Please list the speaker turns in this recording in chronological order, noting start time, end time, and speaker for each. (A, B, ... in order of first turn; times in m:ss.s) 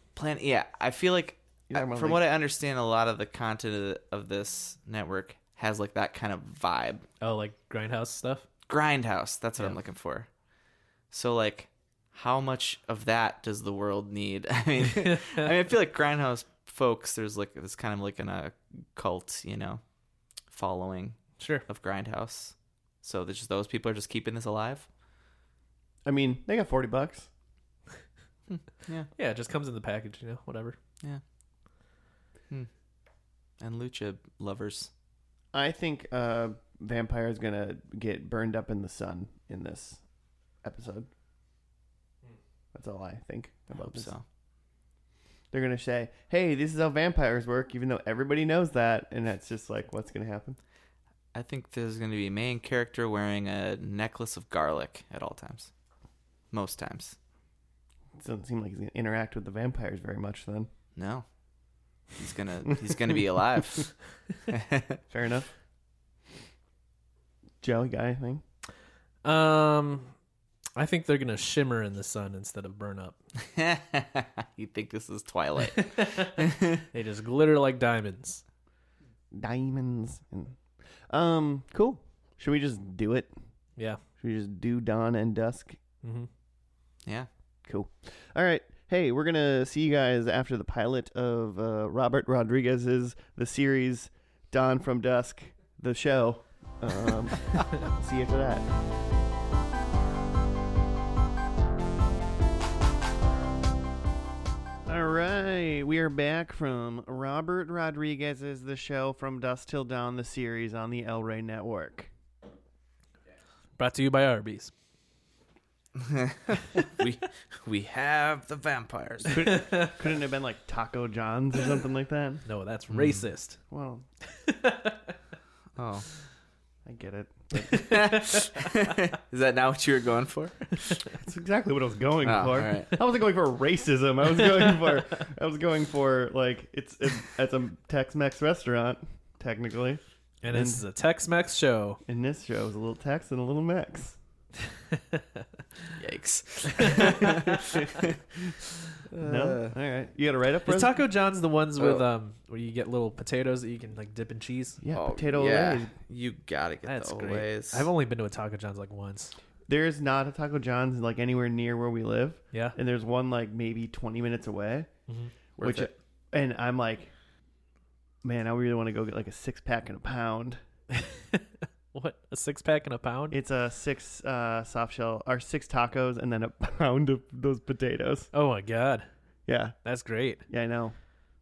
0:00.2-0:07.0 A
0:01.7-0:02.2 B
0:07.2-0:08.5 C
0:08.7-0:10.3 A
0:11.1-0:19.8 A
0:20.5-0:24.9 A
0:21.4-0:21.6 C
0:26.0-0:27.3 B
0:28.5-0:29.1 A
0:29.2-0:30.8 C
0:33.6-0:34.9 A
0:35.5-0:40.0 B
0:40.6-0:41.1 B
0:42.7-0:44.1 B
0:43.8-0:44.2 A
0:45.5-0:50.6 B
0:51.3-0:55.7 A
0:56.5-0:57.2 A
0:58.2-1:00.7 B
1:01.0-1:01.2 A
1:02.2-1:03.9 A
1:04.5-1:05.0 A
1:05.1-1:05.5 B
1:07.6-1:08.4 B
1:09.2-1:10.1 C
1:10.8-1:13.2 C
1:13.4-1:16.8 A
1:15.7-1:18.4 C
1:19.3-1:20.6 B
1:21.1-1:23.3 B
1:24.2-1:25.8 B
1:26.0-1:26.3 C
1:27.6-1:38.6 B
1:44.8-1:52.1 B
1:53.8-1:54.7 C
1:56.0-1:59.5 A
1:59.3-2:02.4 B
1:59.4-1:59.9 C
2:02.4-2:03.6 C
2:02.9-2:03.2 A
2:03.7-2:04.0 B
2:04.3-2:05.1 C
2:05.8-2:06.1 A
2:06.8-2:07.9 B
2:07.7-2:11.0 A
2:07.7-2:08.5 C
2:11.1-2:20.8 B
2:12.2-2:13.0 A
2:20.4-2:22.0 C
2:22.1-2:24.2 B
2:25.0-2:25.2 C
2:26.0-2:29.7 A
2:26.8-2:27.2 C
2:29.2-2:31.0 B
2:30.6-2:34.8 C
2:34.8-2:35.9 B
2:34.9-2:37.9 A
2:36.8-2:39.3 C
2:39.7-2:44.9 B
2:45.6-2:45.9 A
2:45.6-2:47.1 B
2:48.2-2:50.6 B
2:51.0-2:53.4 C
2:53.3-2:58.3 B
2:58.3-2:59.1 C
2:59.5-2:59.7 B
2:59.8-3:00.4 C
3:00.5-3:00.9 B